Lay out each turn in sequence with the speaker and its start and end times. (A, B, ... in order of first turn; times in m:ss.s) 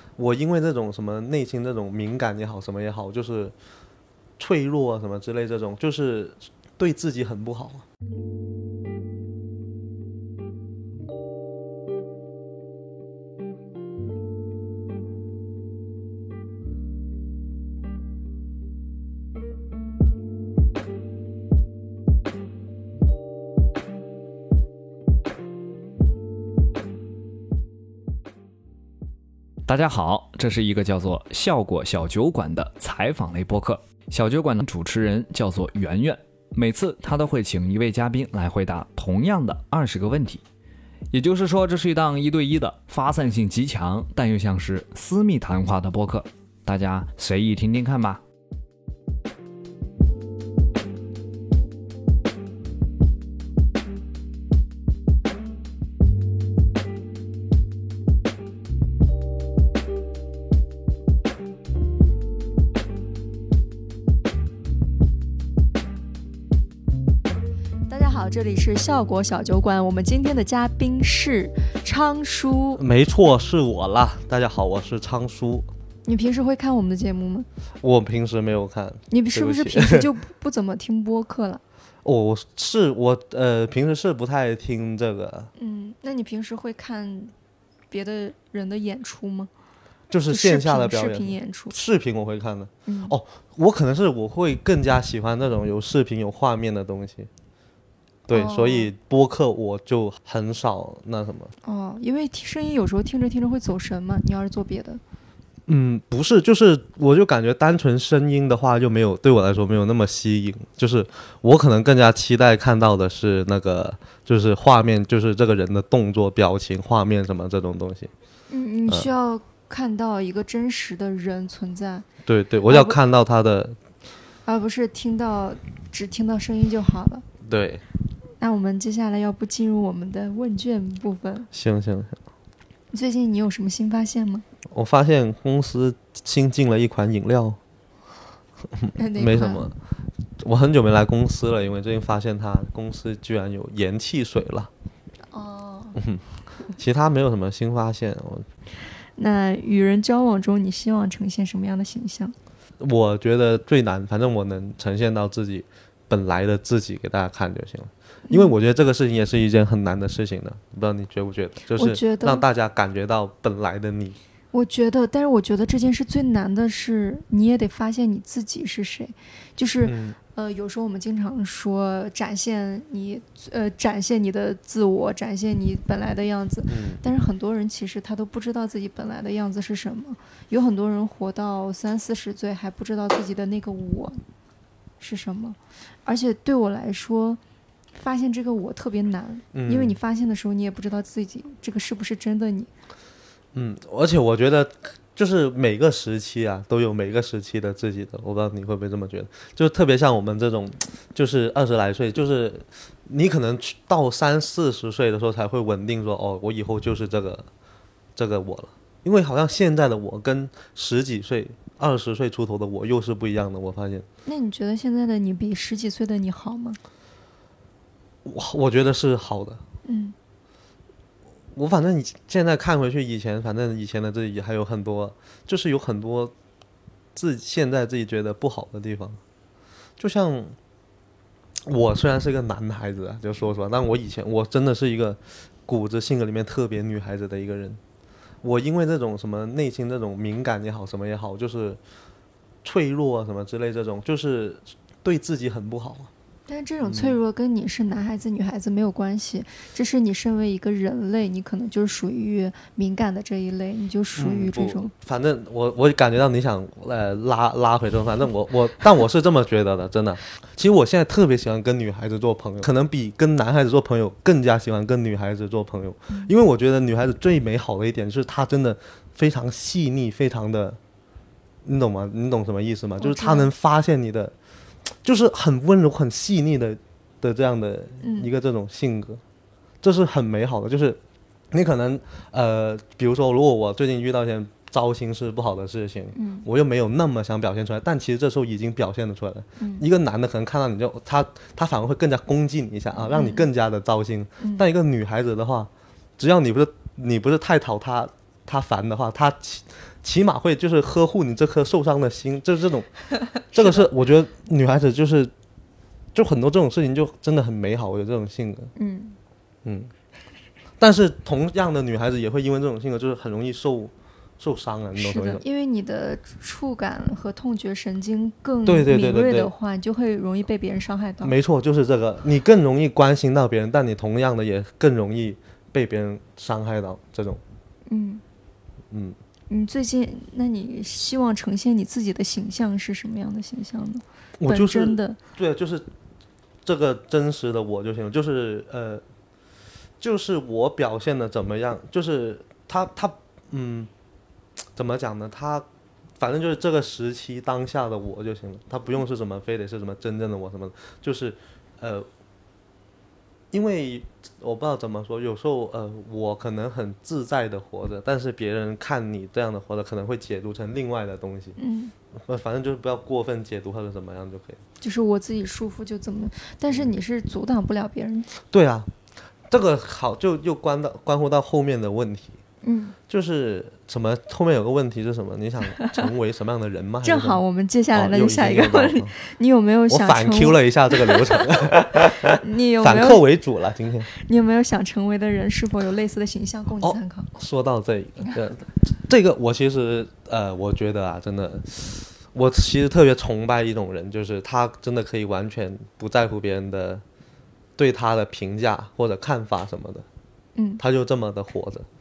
0:00.2-0:03.5 A
0:04.4-0:07.8 A
0:29.7-0:40.4 B
0:41.1-0:48.2 B
1:07.9-1:12.8 C
1:12.8-1:15.7 A
1:16.1-1:17.5 C
1:17.8-1:20.1 A
1:19.1-1:21.6 C
1:22.0-1:25.5 A
1:25.6-1:27.3 C
1:27.9-1:29.5 C
1:30.1-1:37.3 A
1:30.3-1:31.8 C
1:32.9-1:33.2 C
1:38.3-1:38.9 C
1:38.3-1:41.5 A
1:41.6-1:45.0 C
1:45.7-1:58.1 A
1:58.5-2:02.1 C
2:02.3-2:03.8 A
2:02.7-2:03.0 C
2:04.4-2:07.2 C
2:07.4-2:07.8 A
2:08.4-2:11.5 C
2:11.5-2:12.2 A
2:12.9-2:14.5 C
2:14.7-2:17.6 A
2:18.8-2:19.8 A
2:19.0-2:19.7 C
2:20.4-2:24.7 A
2:25.3-2:26.0 C
2:26.0-2:28.5 A
2:29.2-2:32.4 C
2:32.8-2:44.2 A
2:38.3-2:38.5 C
2:41.7-2:42.4 C
2:44.5-3:04.2 C
2:49.8-2:50.2 A
2:56.7-2:57.0 A
3:05.0-3:07.4 C
3:07.9-3:12.7 C
3:09.5-3:10.0 A
3:13.5-3:27.5 A
3:28.2-3:34.1 A
3:34.2-3:36.8 C
3:38.2-3:39.6 A
3:39.8-3:40.2 C
3:41.5-3:46.3 A
3:47.2-3:49.2 A
3:50.0-3:50.6 A
3:51.7-3:57.8 A
3:58.4-4:01.8 A
4:02.6-4:06.1 A
4:06.5-4:14.9 C
4:06.8-4:07.2 A
4:14.2-4:30.8 A
4:31.6-4:34.3 A
4:33.0-4:33.5 C
4:34.9-4:39.2 A
4:38.0-4:38.3 C
4:39.8-4:41.0 A
4:41.5-5:05.3 A
4:46.2-4:46.5 C
4:49.6-4:49.8 C
4:53.1-4:53.5 C
4:54.4-4:54.6 C
5:03.6-5:03.9 C
5:06.2-5:08.7 A
5:08.8-5:09.2 C
5:09.6-5:09.9 A
5:10.8-5:15.4 A
5:15.0-5:21.4 C
5:18.7-5:19.5 A
5:21.2-5:27.4 A
5:27.9-5:28.2 C
5:28.9-5:29.2 A
5:29.5-5:35.2 C
5:34.4-5:35.9 A
5:36.6-5:39.0 A
5:40.0-5:43.9 A
5:44.8-5:45.7 A
5:46.2-5:52.1 A
5:53.5-6:01.6 A
6:01.6-6:01.9 C
6:02.2-6:04.6 A
6:04.8-6:08.3 C
6:08.5-6:08.9 A
6:09.5-6:12.4 A
6:12.6-6:13.0 C
6:13.1-6:17.4 A
6:15.8-6:16.1 C
6:17.0-6:21.7 C
6:17.9-6:19.1 A
6:19.9-6:24.1 A
6:22.2-6:23.2 C
6:24.1-6:27.3 C
6:26.8-6:37.0 A
6:37.8-6:40.1 A
6:40.6-6:40.8 C
6:40.8-6:41.9 A